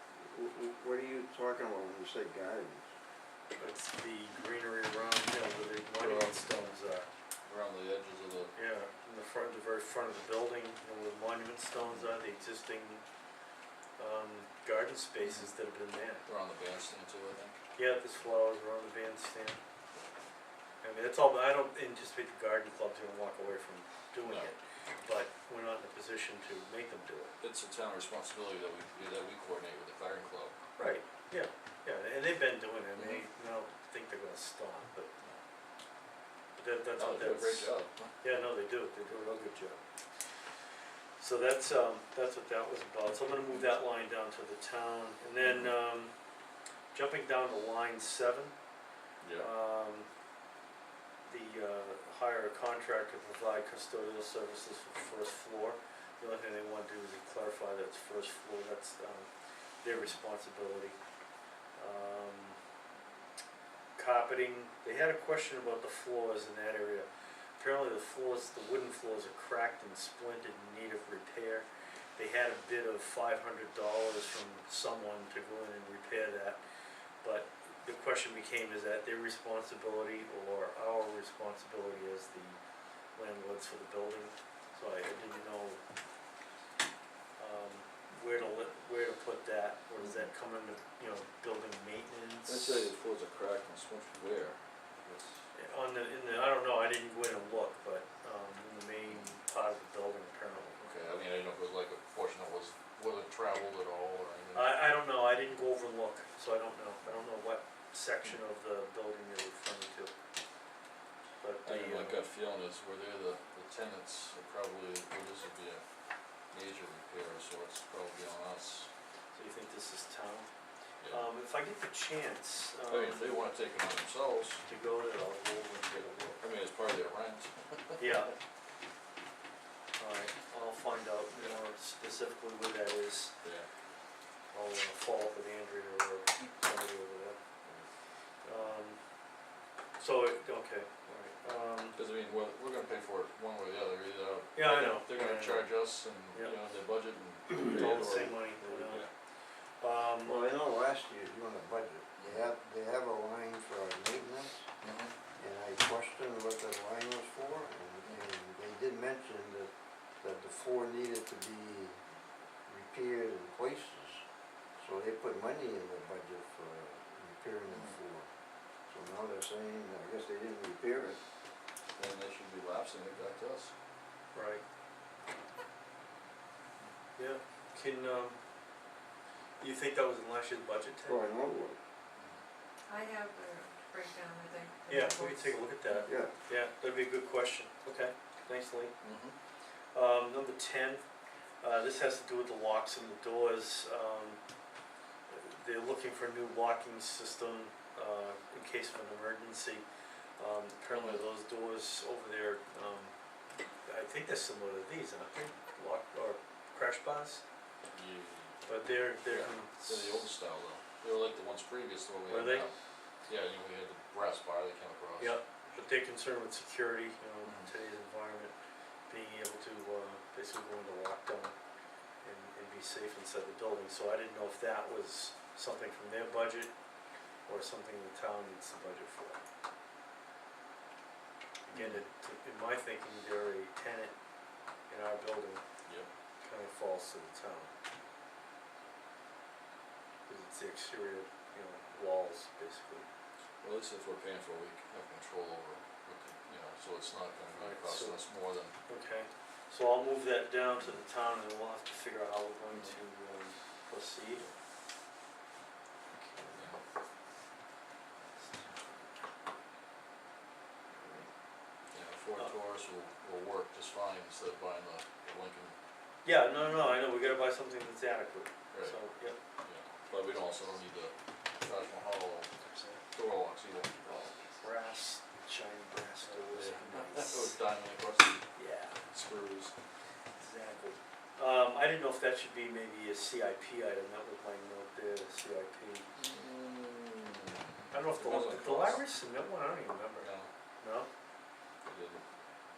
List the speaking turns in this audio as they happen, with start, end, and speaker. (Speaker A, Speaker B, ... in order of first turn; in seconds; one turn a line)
Speaker A: 0.1-2.9
Speaker B: 3.6-7.1
Speaker C: 6.0-6.4
Speaker C: 7.5-8.5
Speaker B: 8.6-13.0
Speaker B: 14.0-16.2
Speaker C: 15.2-15.5
Speaker C: 16.3-17.6
Speaker B: 17.8-19.6
Speaker B: 20.8-27.4
Speaker C: 24.3-24.5
Speaker C: 27.4-30.6
Speaker B: 30.8-35.1
Speaker C: 33.0-33.2
Speaker B: 36.6-37.7
Speaker C: 37.0-38.1
Speaker B: 38.2-39.8
Speaker B: 41.2-46.1
Speaker C: 45.4-45.7
Speaker B: 46.9-48.5
Speaker C: 49.2-49.5
Speaker B: 49.4-50.1
Speaker B: 51.3-59.3
Speaker B: 59.8-61.0
Speaker B: 61.8-62.6
Speaker B: 64.0-67.1
Speaker B: 67.6-71.7
Speaker B: 72.2-76.6
Speaker B: 77.2-82.6
Speaker B: 83.2-85.8
Speaker B: 87.4-92.9
Speaker C: 92.5-95.3
Speaker B: 95.5-100.9
Speaker C: 100.8-104.8
Speaker B: 104.5-110.1
Speaker B: 111.4-112.2
Speaker C: 111.6-115.8
Speaker C: 116.5-118.9
Speaker B: 119.3-120.5
Speaker B: 121.1-123.5
Speaker C: 122.9-124.6
Speaker B: 124.6-126.4
Speaker C: 126.4-128.2
Speaker B: 128.0-128.3
Speaker B: 130.0-133.3
Speaker C: 133.4-133.7
Speaker B: 134.5-137.4
Speaker B: 138.4-139.0
Speaker B: 140.0-142.0
Speaker C: 142.0-149.1
Speaker B: 144.6-145.7
Speaker B: 147.6-149.1
Speaker B: 149.8-150.4
Speaker A: 150.2-154.7
Speaker C: 152.2-152.5
Speaker C: 154.8-155.1
Speaker A: 155.4-159.7
Speaker A: 160.2-162.0
Speaker A: 162.7-164.2
Speaker A: 164.8-168.3
Speaker A: 168.9-171.2
Speaker C: 172.0-173.7
Speaker B: 174.3-174.6
Speaker B: 177.2-178.4
Speaker B: 179.6-181.2
Speaker A: 181.1-181.8
Speaker D: 182.9-185.6
Speaker B: 184.9-188.9
Speaker A: 186.1-186.3
Speaker C: 189.0-189.3
Speaker B: 189.9-191.0
Speaker B: 191.6-194.4
Speaker B: 195.3-199.8
Speaker B: 200.4-203.1
Speaker C: 200.9-201.2
Speaker B: 203.8-207.4
Speaker C: 207.9-208.6
Speaker B: 208.7-210.2
Speaker C: 209.2-212.7
Speaker B: 212.3-212.7
Speaker C: 213.3-215.8
Speaker B: 215.2-218.6
Speaker C: 217.4-217.7
Speaker B: 219.1-221.6
Speaker B: 222.2-226.7
Speaker B: 227.5-229.4
Speaker B: 231.7-234.1
Speaker C: 231.7-232.0
Speaker B: 234.9-235.6
Speaker B: 236.4-237.7
Speaker B: 240.3-243.1
Speaker C: 243.6-248.8
Speaker B: 247.5-248.2
Speaker B: 248.9-254.5
Speaker B: 256.2-256.6
Speaker C: 256.5-256.8
Speaker B: 260.9-261.3
Speaker C: 261.9-265.8
Speaker B: 266.2-269.4
Speaker C: 269.6-272.5
Speaker B: 272.6-273.0
Speaker C: 273.1-274.4
Speaker B: 274.6-277.6
Speaker C: 276.5-278.5
Speaker B: 278.6-279.0
Speaker C: 279.1-279.8
Speaker B: 280.4-286.1
Speaker C: 286.2-289.0
Speaker B: 287.9-290.3
Speaker C: 290.2-290.5
Speaker B: 290.8-291.1
Speaker C: 291.9-292.2